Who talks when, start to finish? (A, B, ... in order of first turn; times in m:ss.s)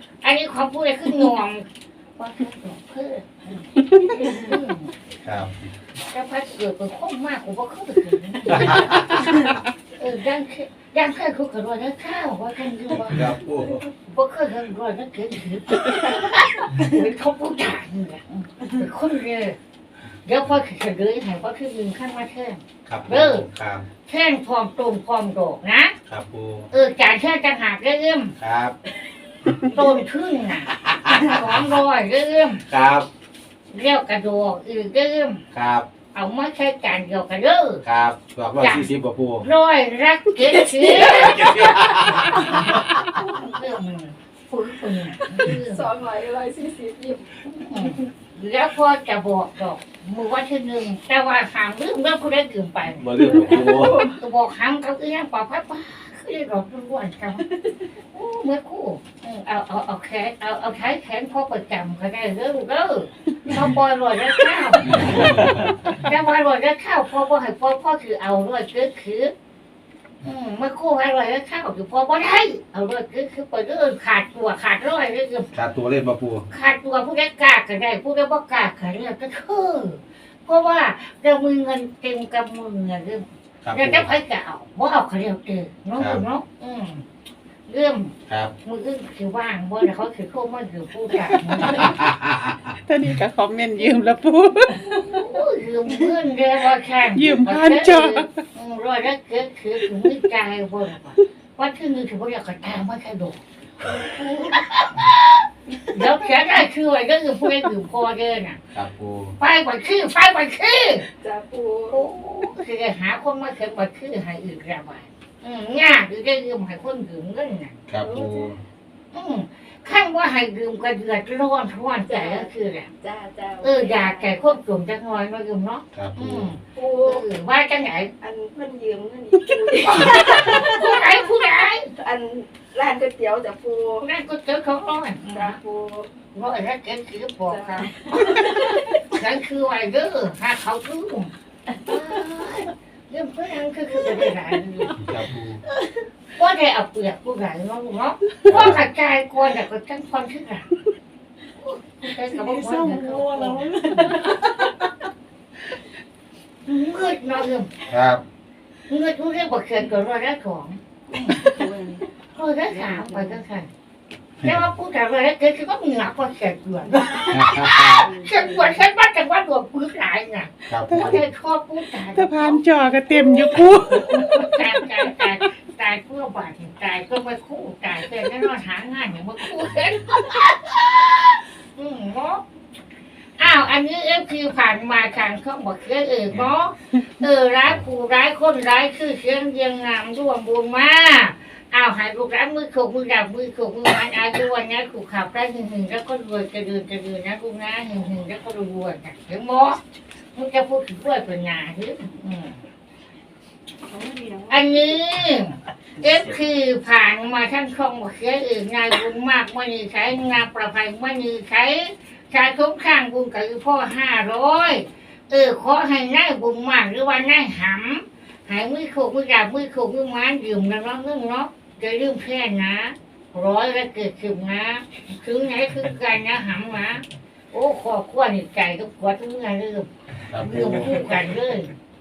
0:00.2-0:05.0 A
0:05.2-0:05.7 B
0:06.1-0:09.4 A
0:10.0-0:13.3 A
0:13.0-0:13.9 B
0:14.0-0:19.6 A
0:20.2-0:23.4 A
0:22.9-0:23.9 B
0:24.1-0:26.0 A
0:26.1-0:26.7 B
0:26.7-0:28.4 A
0:28.4-0:28.8 B
0:29.6-0:32.7 A
0:30.9-0:31.2 B
0:32.7-0:33.1 B
0:33.7-0:35.4 A
0:35.5-0:35.9 B
0:36.1-0:37.8 A
0:37.8-0:39.5 B
0:38.6-0:38.9 A
0:39.4-0:42.3 A
0:40.6-0:42.6 C
0:41.2-0:42.5 B
0:43.2-0:45.9 A
0:45.4-0:47.4 C
0:47.4-0:53.1 A
0:53.0-0:54.0 B
0:53.3-0:54.2 C
0:54.1-0:57.5 A
0:58.1-1:09.3 A
1:05.1-1:05.6 B
1:10.2-1:15.5 A
1:15.5-1:16.5 B
1:16.5-1:27.0 A
1:23.6-1:24.1 B
1:26.0-1:26.2 B
1:27.7-1:32.0 A
1:28.3-1:28.5 B
1:31.5-1:31.9 D
1:31.9-1:32.6 B
1:32.7-1:34.9 D
1:34.9-1:48.6 A
1:37.1-1:38.4 D
1:48.7-1:49.4 B
1:49.4-1:51.1 A
1:51.2-1:52.0 C
1:51.9-1:57.8 A
1:57.9-1:58.6 B
1:58.0-1:58.6 C
1:59.1-2:02.9 A
2:02.1-2:04.6 C
2:03.6-2:08.1 A
2:05.9-2:06.5 B
2:06.8-2:07.2 C
2:08.2-2:11.0 C
2:09.9-2:11.9 A
2:12.0-2:14.1 C
2:14.0-2:15.6 A
2:15.3-2:16.1 C
2:16.3-2:25.0 A
2:17.5-2:19.0 C
2:25.0-2:25.6 B
2:26.4-2:30.7 A
2:28.4-2:28.8 B
2:31.6-2:33.7 A
2:33.1-2:34.7 C
2:33.8-2:34.1 D
2:36.7-2:37.8 A
2:37.9-2:38.2 B
2:38.9-2:41.5 A
2:41.1-2:42.1 C
2:42.3-2:43.7 A
2:42.8-2:43.4 C
2:44.4-3:02.4 A
2:47.3-2:48.1 B
2:48.0-2:48.8 C
2:50.7-2:51.2 B
2:50.9-2:51.2 D
2:52.1-2:54.7 D
3:03.4-3:19.8 A
3:20.3-3:22.6 A
3:23.8-3:24.6 C
3:24.5-3:51.7 A
3:50.3-3:50.9 B